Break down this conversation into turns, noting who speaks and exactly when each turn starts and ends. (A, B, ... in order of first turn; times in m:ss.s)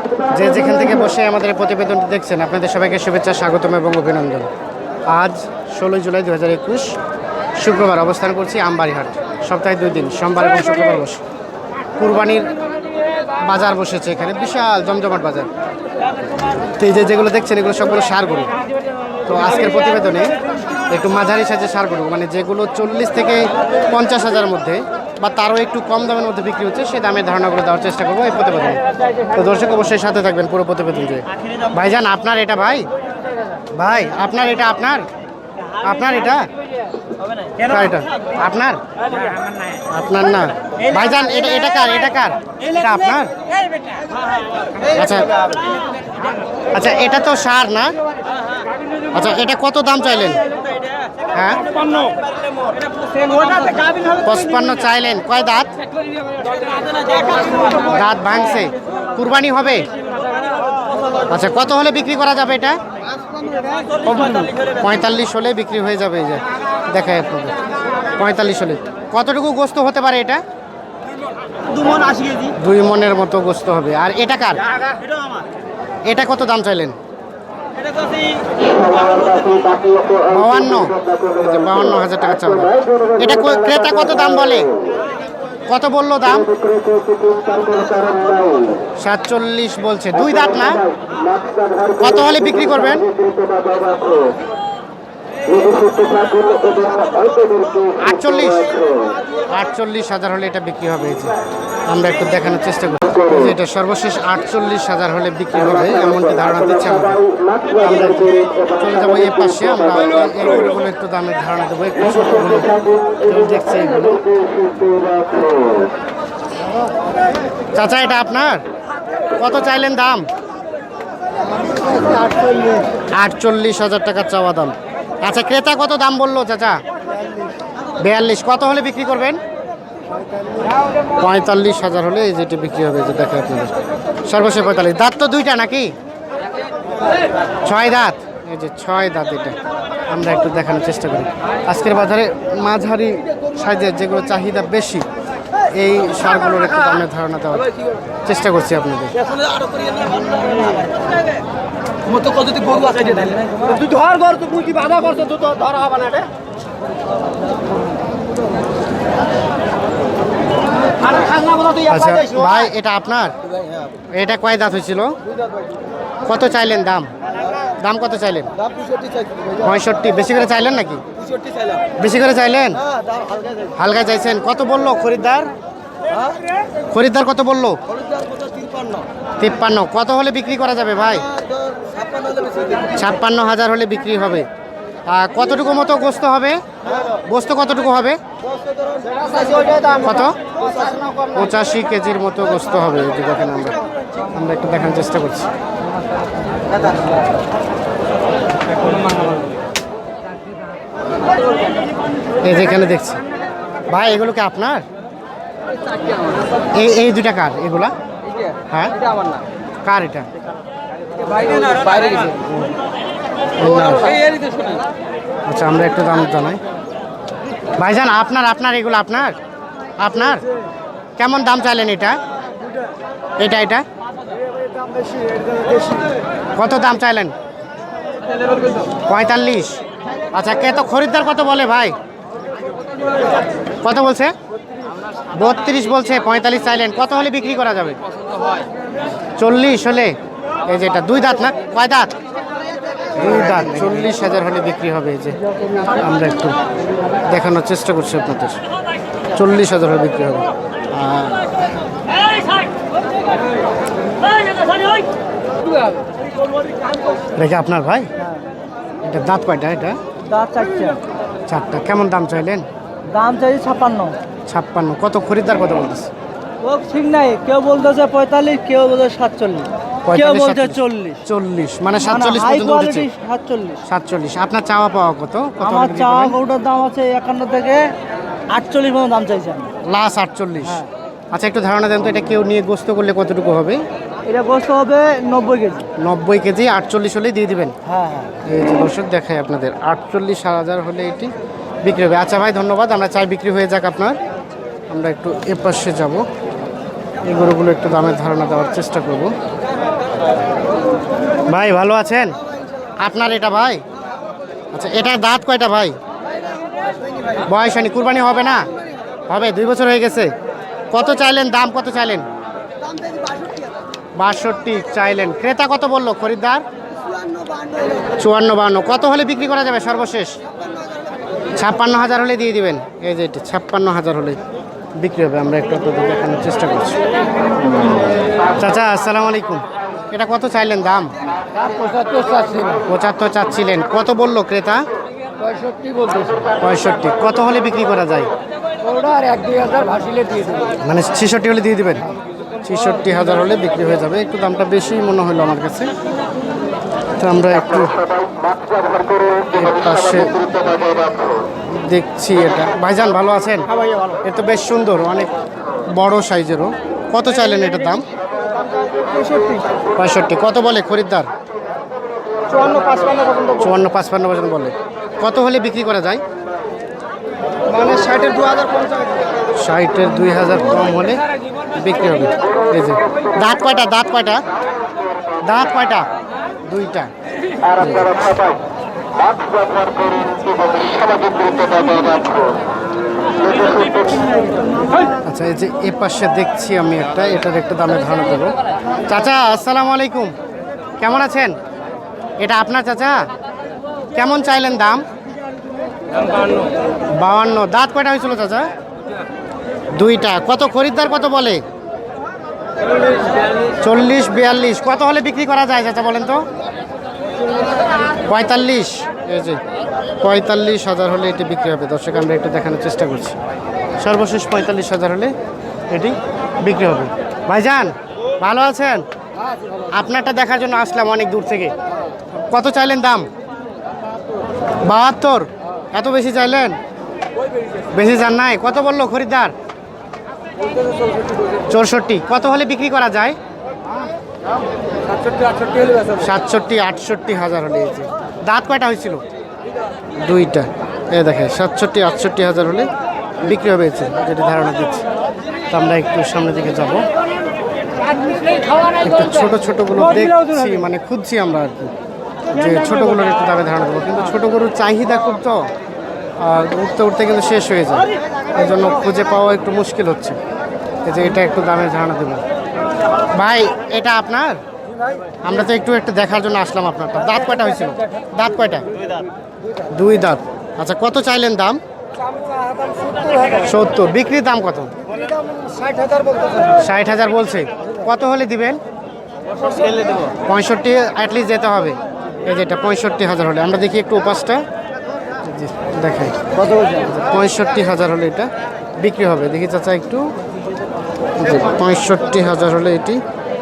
0:00.3-0:04.5 A
0:05.1-0:07.0 A
0:07.6-0:11.2 A
0:12.0-0:12.5 A
0:13.4-0:15.5 A
0:16.8-0:18.5 A
0:19.2-0:20.4 A
0:20.9-0:28.8 A
0:29.3-0:32.8 A
0:33.8-0:35.0 A
0:35.8-0:36.4 A
0:37.6-0:38.8 A
0:39.9-0:43.3 A
0:44.9-0:45.3 A
0:46.7-0:47.9 A
0:49.1-0:50.4 A
0:51.3-0:51.6 A
0:53.2-0:53.9 B
0:54.2-0:55.7 A
0:57.8-0:59.9 A
1:01.3-1:02.8 A
1:04.8-1:07.6 A
1:08.2-1:10.4 A
1:12.4-1:14.6 A
1:16.0-1:17.0 A
1:20.2-1:24.7 A
1:25.7-1:26.5 A
1:29.0-1:30.8 A
1:32.0-1:33.1 A
1:38.0-1:38.7 A
1:39.5-1:41.3 A
1:41.9-1:54.2 A
1:57.7-1:58.6 A
1:59.4-2:00.2 A
2:02.2-2:02.8 B
2:03.2-2:06.8 A
2:08.0-2:09.4 A
2:11.2-2:13.7 A
2:14.2-2:15.9 A
2:17.6-2:19.6 A
2:20.1-2:25.0 A
2:25.7-2:27.7 A
2:28.2-2:29.2 A
2:29.6-2:30.2 B
2:32.1-2:36.2 B
2:41.8-2:43.3 A
2:44.1-2:45.2 A
2:46.2-2:47.1 A
2:47.8-2:48.5 A
2:49.6-2:51.0 A
2:52.0-2:52.8 A
2:53.8-2:55.5 A
2:56.9-2:57.8 A
2:59.4-3:01.3 A
3:02.2-3:02.8 B
3:02.9-3:04.5 A
3:05.1-3:06.6 A
3:07.2-3:08.2 A
3:09.2-3:09.9 B
3:09.9-3:10.4 A
3:11.3-3:13.8 A
3:14.3-3:15.5 A
3:22.4-3:23.2 A
3:23.9-3:24.8 A
3:26.7-3:27.9 A
3:28.7-3:29.0 A
3:29.8-3:30.3 A
3:31.4-3:32.3 B
3:33.6-3:34.2 A
3:35.5-3:36.6 A
3:37.8-3:39.4 A
3:40.0-3:40.4 A
3:41.2-3:42.2 A
3:43.4-3:43.8 A
3:46.6-3:47.3 A
3:49.0-3:49.8 A
3:50.3-3:51.9 A
3:53.8-3:54.3 A
3:55.4-3:58.0 A
3:59.4-4:00.1 A
4:00.6-4:02.1 A
4:03.2-4:05.4 A
4:05.9-4:06.6 A
4:07.2-4:08.6 A
4:09.3-4:11.5 A
4:17.4-4:18.1 A
4:19.0-4:20.0 A
4:20.2-4:21.0 B
4:21.5-4:22.6 A
4:23.1-4:24.2 B
4:24.5-4:26.1 A
4:26.6-4:31.2 B
4:30.0-4:33.1 A
4:32.0-4:33.8 B
4:33.8-4:36.4 A
4:35.6-4:37.9 B
4:38.5-4:39.7 B
4:39.8-4:43.8 A
4:44.3-4:45.9 B
4:46.0-4:47.7 A
4:47.8-4:48.3 B
4:48.4-4:51.3 A
4:51.8-4:54.2 A
4:54.9-4:56.2 A
4:57.2-4:59.3 A
5:01.4-5:02.4 A
5:03.0-5:03.8 A
5:04.7-5:05.9 A
5:07.4-5:08.6 A
5:09.3-5:10.3 A
5:10.9-5:12.2 A
5:14.2-5:16.6 A
5:18.2-5:20.4 A
5:21.6-5:24.4 A
5:25.0-5:27.0 A
5:28.6-5:31.1 A
5:31.7-5:32.8 B
5:32.8-5:34.8 A
5:35.5-5:36.3 B
5:36.4-5:38.3 A
5:38.9-5:40.6 B
5:40.8-5:42.1 A
5:42.6-5:45.9 A
5:47.2-5:48.0 A
5:49.5-5:50.6 A
5:51.7-5:53.7 A
5:54.2-5:55.3 A
5:55.9-5:58.0 A
5:59.0-5:59.6 B
6:00.0-6:01.3 A
6:02.5-6:03.5 B
6:03.5-6:06.2 A
6:07.7-6:09.0 B
6:09.6-6:11.2 A
6:11.7-6:14.4 A
6:15.4-6:16.0 A
6:16.6-6:17.1 A
6:17.8-6:18.2 A
6:25.2-6:28.5 A
6:29.1-6:30.3 A
6:31.0-6:31.5 A
6:32.4-6:33.2 A
6:34.1-6:35.0 A
6:37.1-6:38.7 A
6:39.9-6:41.6 A
6:43.8-6:46.4 A
6:48.2-6:49.6 A
6:50.2-6:53.4 A
6:54.0-6:55.3 A
6:55.9-6:59.0 A
6:59.9-7:01.7 A
7:02.3-7:03.3 A
7:04.8-7:06.8 A
7:07.9-7:09.5 A
7:11.7-7:13.4 A
7:16.1-7:19.2 A
7:20.2-7:22.9 A
7:23.4-7:25.0 A
7:25.7-7:27.0 A
7:29.0-7:31.9 A
7:32.5-7:35.7 A
7:36.4-7:40.4 A
7:41.0-7:42.4 A
7:43.4-7:44.6 A
7:45.4-7:48.8 A
7:49.9-7:51.8 A
7:53.5-7:54.9 A
7:56.8-7:58.8 A
8:00.4-8:04.6 A
8:05.4-8:10.3 A
8:11.4-8:13.2 A